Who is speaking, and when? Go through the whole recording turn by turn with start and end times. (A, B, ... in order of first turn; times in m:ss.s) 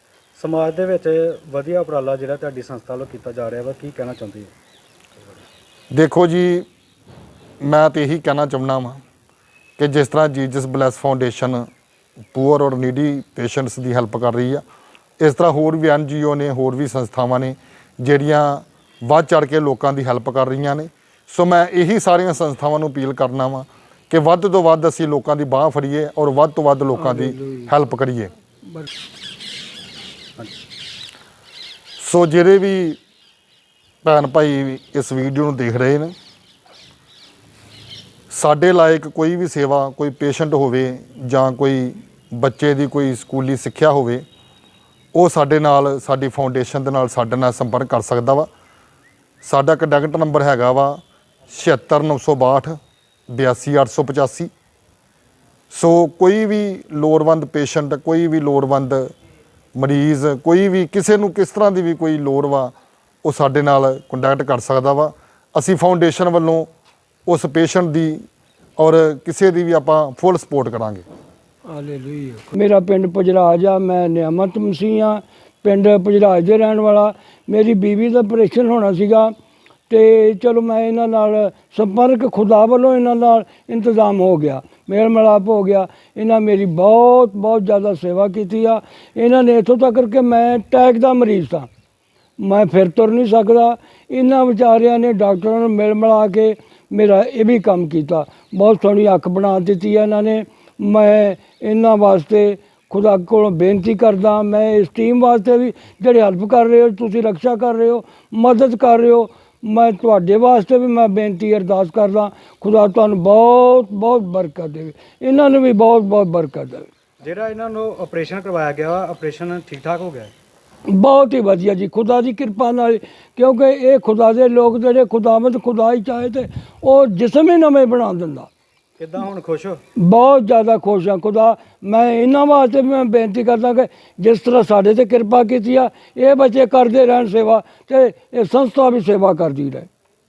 0:00.4-0:04.5 A
0:05.9-0:06.7 B
0:07.6-0:09.0 B
0:09.8-0:11.7 B
0:12.3-0:14.6 B
0:15.2-0:28.3 B
0:26.9-0:27.7 C
0:32.0-0:33.0 B
0:34.0-0:36.1 B
0:38.3-0:44.2 B
0:45.1-0:48.5 B
0:49.4-0:52.8 B
0:53.3-0:54.5 B
0:55.7-0:59.1 B
0:59.8-1:06.7 B
1:07.2-1:08.2 B
1:08.8-1:11.0 B
1:11.7-1:19.3 C
1:19.9-1:31.7 C
1:32.4-1:56.9 C
1:57.2-2:00.3 A
2:00.9-2:08.5 C
2:09.0-2:09.8 A
2:10.0-2:19.9 C